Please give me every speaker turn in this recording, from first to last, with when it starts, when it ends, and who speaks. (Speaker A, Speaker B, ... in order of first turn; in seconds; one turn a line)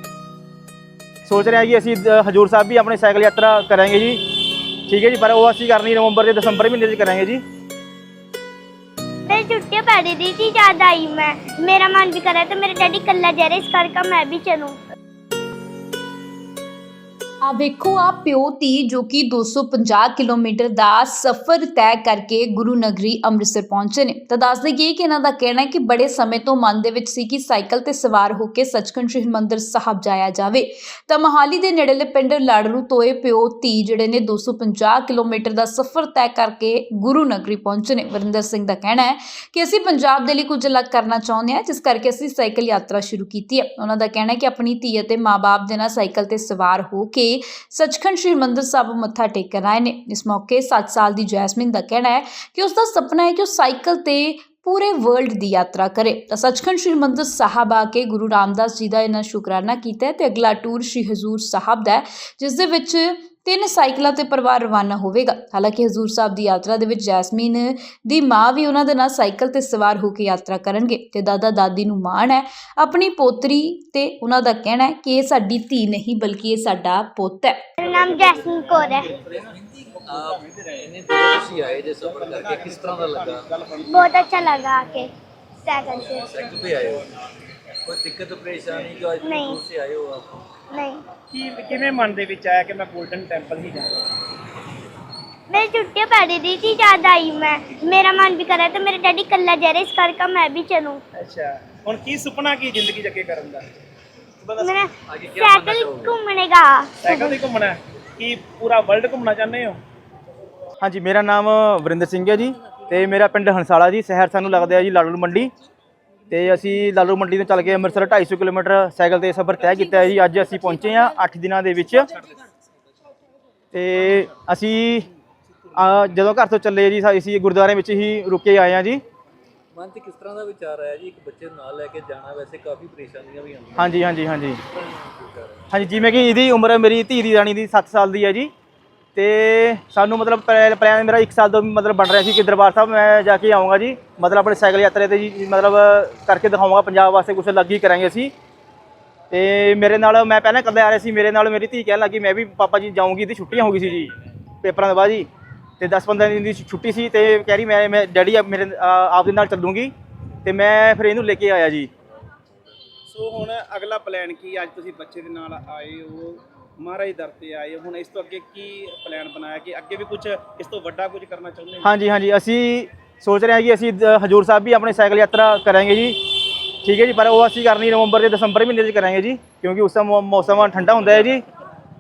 Speaker A: 1.3-7.4
Speaker B: 9.3-14.8
Speaker C: 17.4-77.7
Speaker B: 77.8-79.1
Speaker D: 78.4-78.8
Speaker E: 79.0-83.5
Speaker D: 80.4-80.7
Speaker D: 82.0-84.2
Speaker B: 83.9-85.1
Speaker B: 85.6-86.3
Speaker E: 86.2-87.1
Speaker E: 87.8-90.4
Speaker B: 89.2-89.6
Speaker B: 90.7-91.0
Speaker D: 91.3-94.1
Speaker B: 95.5-101.0
Speaker D: 101.2-103.7
Speaker D: 104.4-104.7
Speaker B: 104.6-107.4
Speaker E: 105.1-106.2
Speaker D: 107.0-109.8
Speaker A: 110.8-115.5
Speaker A: 116.3-122.1
Speaker A: 123.7-125.1
Speaker A: 125.7-129.0
Speaker E: 129.7-133.9
Speaker A: 133.8-134.6
Speaker E: 134.7-135.9
Speaker A: 135.7-138.5
Speaker A: 139.2-148.3
Speaker A: 149.3-155.3
Speaker A: 155.8-159.9
Speaker A: 160.4-161.9
Speaker D: 163.1-171.9
Speaker A: 171.8-181.4